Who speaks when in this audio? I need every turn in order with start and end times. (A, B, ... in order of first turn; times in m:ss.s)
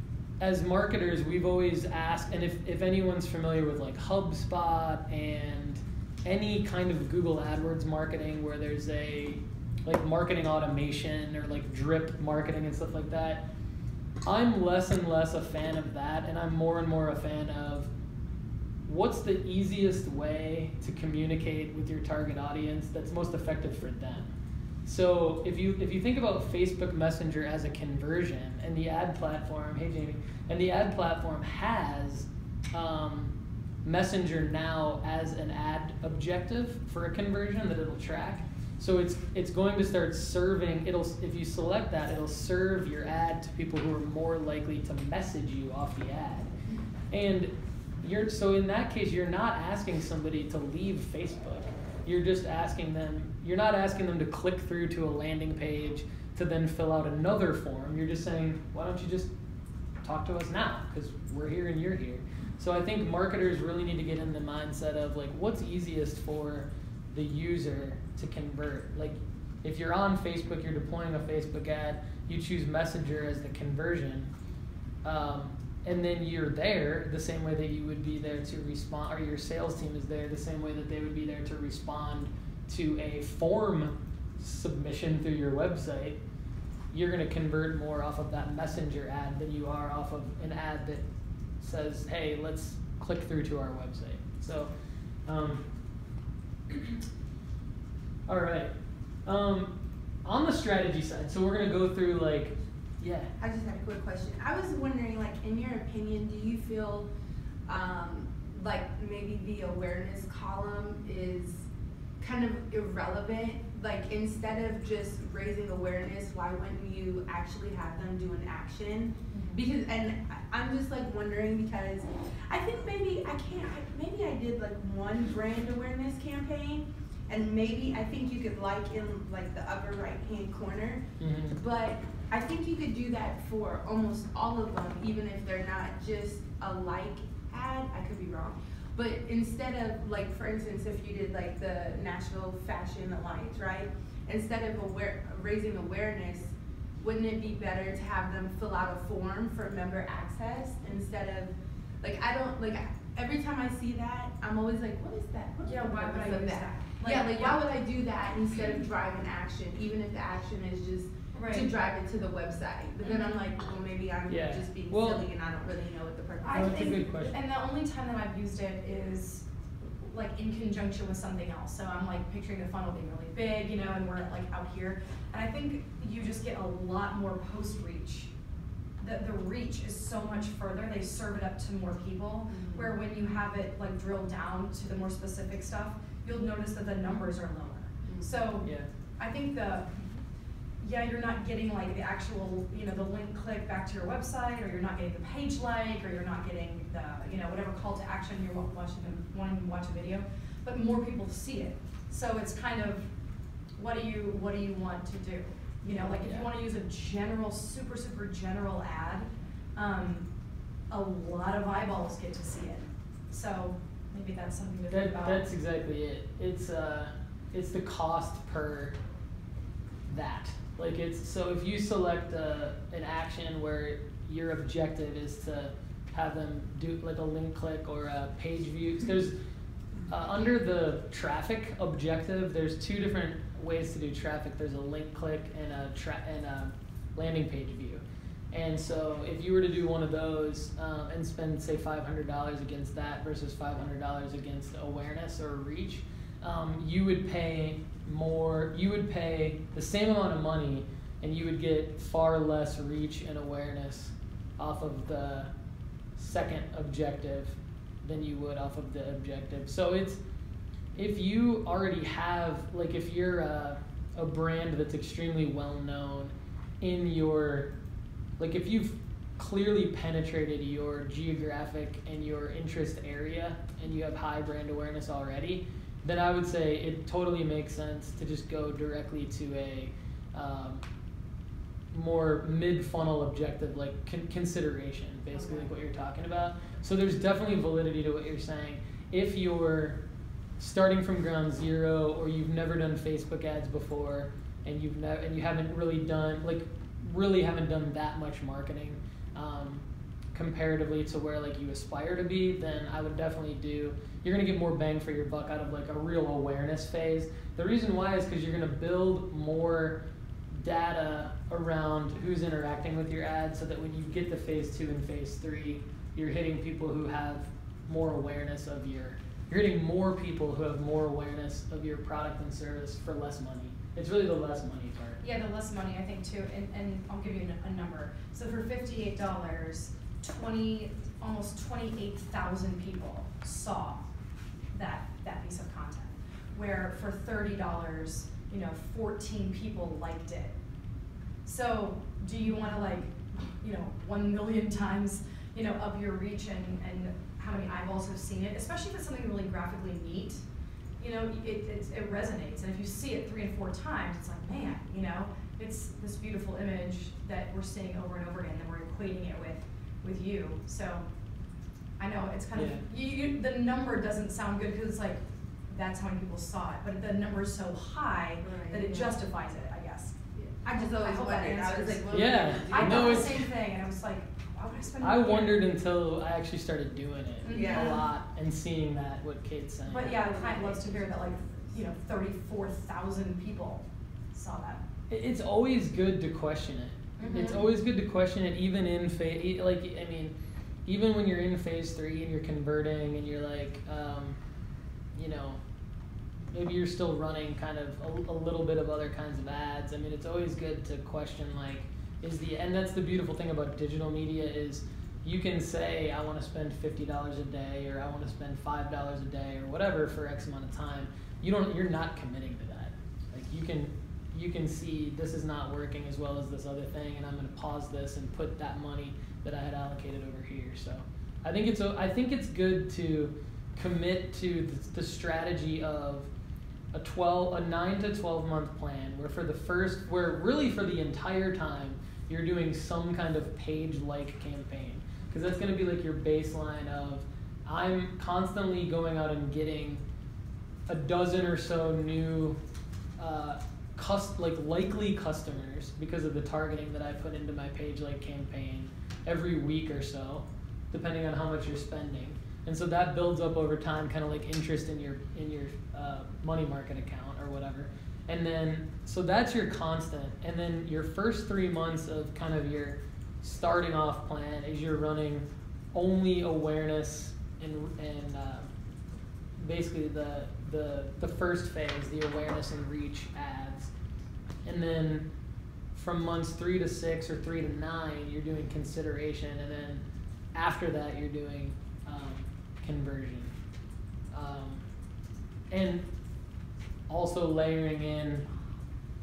0:00.4-0:13.4 A
0:14.2-0:17.9 A
0:18.9-0:24.3 A
0:24.8-0:33.3 A
0:33.8-0:46.5 A
0:47.1-0:59.3 A
1:00.0-1:14.3 A
1:15.0-1:26.2 A
1:26.9-1:31.0 A
1:31.6-1:34.7 A
1:35.2-1:35.6 A
1:36.7-1:37.0 A
1:38.3-1:38.7 A
1:39.2-1:39.7 A
1:40.2-1:43.3 A
1:43.4-1:47.1 B
1:47.6-1:51.6 B
1:52.2-2:47.2 B
1:59.3-1:59.6 C
2:11.2-2:11.6 A
2:35.6-2:37.7 C
2:41.3-2:41.7 C
2:43.0-2:43.4 C
2:44.3-2:45.3 A
2:46.5-2:58.3 C
2:46.5-2:47.4 A
2:59.0-3:09.9 C
3:02.5-3:02.9 B
3:08.0-3:08.3 B
3:08.6-3:08.9 A
3:10.8-3:23.1 C
3:23.8-3:30.3 C
3:25.9-3:26.5 A
3:30.9-3:35.5 C
3:34.9-3:39.0 A
3:40.1-3:49.4 A
3:50.1-4:15.5 A
4:16.2-4:20.2 A
4:20.9-4:27.7 A
4:28.4-4:40.8 A
4:41.9-4:50.0 A
4:50.6-5:10.0 A
5:10.5-5:25.2 A
5:25.2-5:34.0 C
5:34.7-5:40.5 C
5:41.4-5:50.4 C
5:51.0-6:01.0 C
6:02.0-6:15.7 C
6:02.5-6:02.8 A
6:08.4-6:09.2 B
6:10.4-6:13.4 B
6:12.1-6:13.5 A
6:15.0-6:20.2 A
6:17.4-6:18.0 C
6:17.5-6:18.0 B
6:19.9-6:24.8 C
6:20.0-6:21.7 B
6:25.1-6:30.3 A
6:27.2-6:27.6 C
6:27.2-6:27.7 B
6:30.8-6:34.4 A
6:35.1-6:35.6 A
6:36.5-7:06.3 A
7:06.9-7:20.0 A
7:20.9-7:22.6 A
7:23.2-7:48.7 A
7:49.6-7:53.9 A
7:54.6-7:55.3 A
7:55.9-8:03.5 A
8:04.3-8:04.8 A
8:05.7-8:06.0 A
8:07.1-8:08.4 A